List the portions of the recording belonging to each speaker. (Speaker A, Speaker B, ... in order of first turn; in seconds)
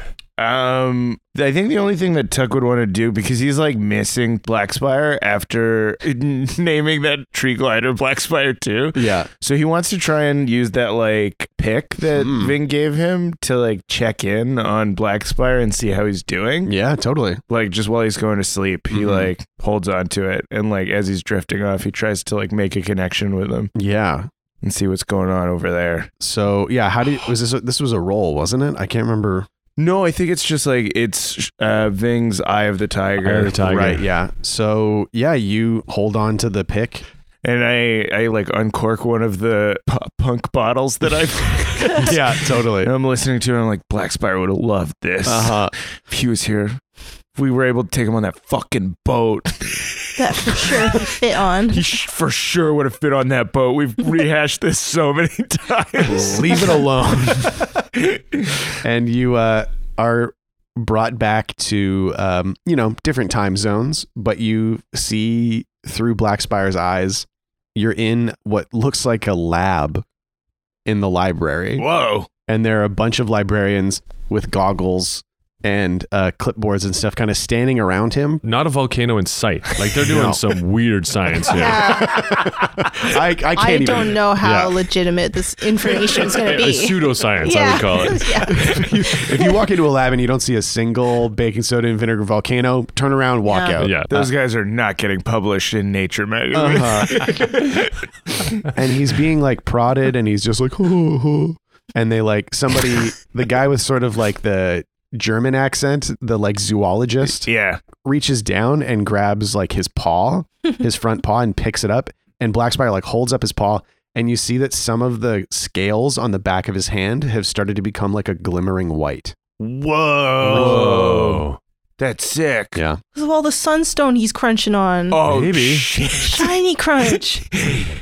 Speaker A: 0.4-16.7, 17.5-23.7, 24.6-26.1, 29.8-33.5, 37.4-46.8, 47.3-58.7, 71.8-72.3, 94.1-98.6, 107.4-107.8, 119.6-121.4, 122.0-122.8, 125.1-126.5, 127.5-127.9
Speaker B: 8.9-9.3, 12.2-12.5, 16.6-17.4, 18.9-19.3, 23.7-24.3, 26.2-29.5, 33.6-37.0, 41.9-42.9, 45.2-45.7, 56.0-57.6, 58.8-70.0, 70.8-71.8, 72.5-78.4, 80.0-80.4, 81.6-84.2, 88.5-93.9, 96.5-97.4, 98.6-119.3, 120.4-120.9, 122.7-123.0
Speaker C: 33.2-34.0, 78.4-82.1, 84.4-84.8, 86.2-88.5, 93.8-94.3, 120.4-121.6, 125.2-125.9
Speaker D: 50.2-51.8, 81.5-82.4, 83.5-89.6, 93.4-93.8, 123.1-125.2, 126.2-127.5